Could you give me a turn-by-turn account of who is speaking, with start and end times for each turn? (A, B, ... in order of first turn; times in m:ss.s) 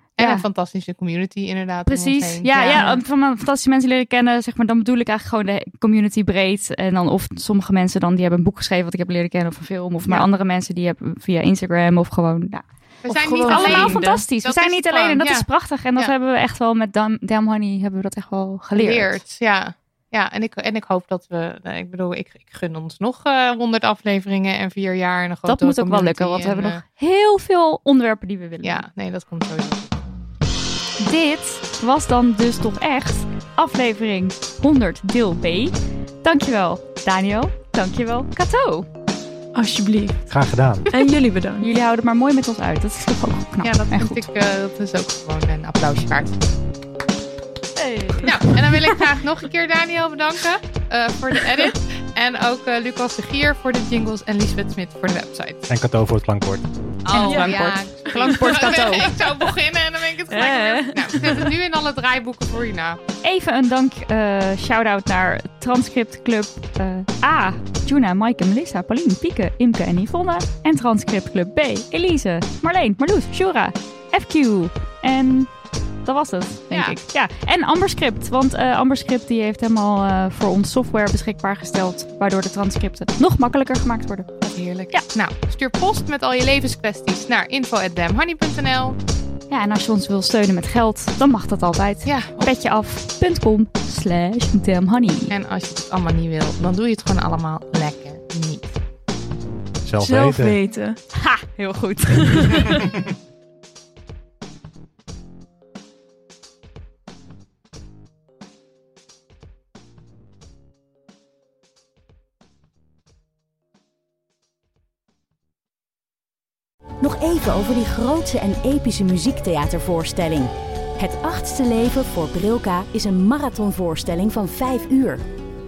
0:00.2-0:02.9 A
0:00.2-0:00.4 B
0:01.8-0:12.7 B
0:02.7-0:03.0 C
0:13.0-0:16.1 A
0:13.1-0:14.2 C
0:13.4-0:19.2 B
0:18.7-0:26.8 A
0:25.5-0:28.8 B
0:28.6-0:29.9 A
0:31.0-0:38.9 B
0:39.5-0:40.3 C
0:40.3-0:40.8 D
0:40.9-0:41.7 C
0:41.6-0:44.2 B
0:43.6-0:46.3 A
0:47.8-0:48.3 B
0:48.2-0:55.7 A
0:55.7-0:56.6 D
0:57.1-1:03.0 A
0:57.1-0:59.2 B
0:57.2-0:58.7 C
1:00.3-1:01.5 C
1:03.2-1:15.5 B
1:16.0-1:24.3 B
1:16.7-1:17.0 A
1:24.4-1:29.0 A
1:29.5-1:35.3 B
1:32.0-1:32.5 A
1:35.3-1:38.8 A
1:39.8-1:40.6 D
1:40.0-1:41.0 C
1:41.1-1:42.7 B
1:42.3-1:42.7 C
1:57.0-2:05.2 E